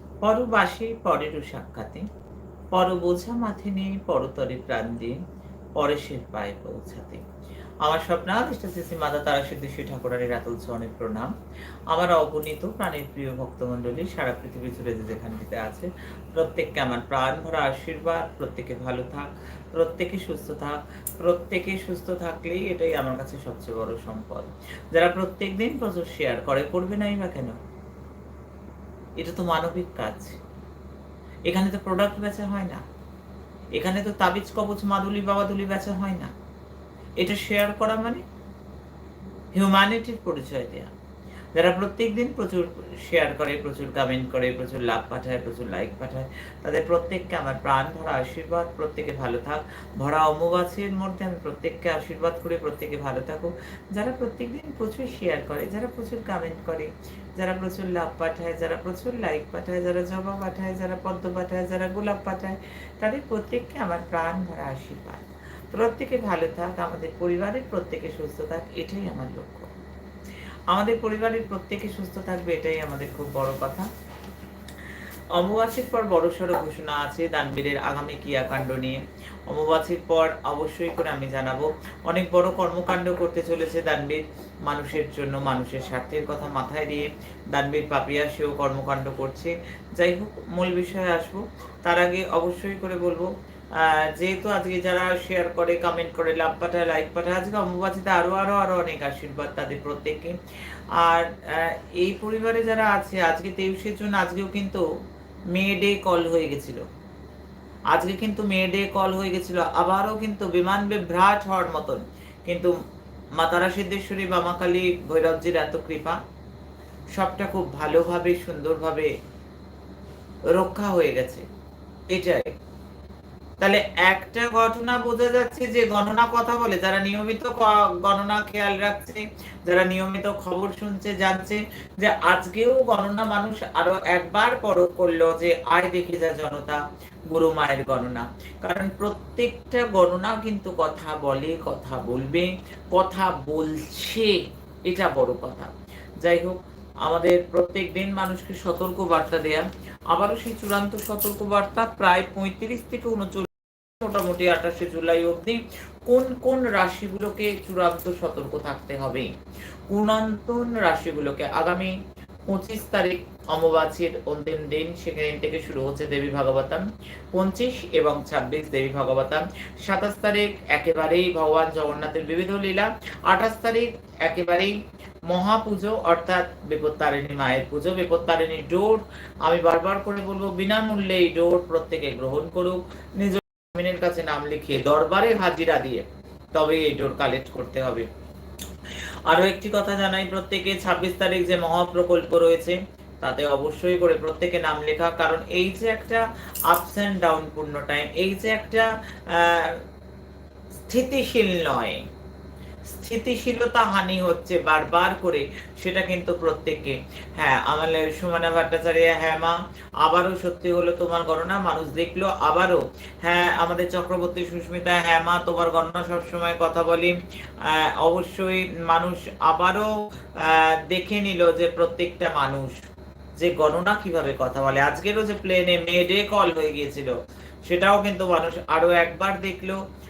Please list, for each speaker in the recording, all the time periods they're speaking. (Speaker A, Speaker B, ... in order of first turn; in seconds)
Speaker A: 0.2-2.0, 2.7-5.2, 5.8-7.2, 7.8-11.3, 11.9-27.6, 29.2-30.4, 31.5-32.8, 33.7-36.3, 37.2-38.2, 39.5-40.9, 41.5-69.7, 70.7-73.9, 75.3-100.4, 101.0-104.8, 105.5-106.8, 107.9-112.8, 113.3-116.2, 117.1-119.1, 120.5-121.4, 122.1-122.5, 123.6-159.3, 159.9-161.9, 162.5-174.7, 175.3-188.1, 189.3-199.8, 200.9-202.0, 202.9-222.7, 223.4-227.1, 227.6-229.8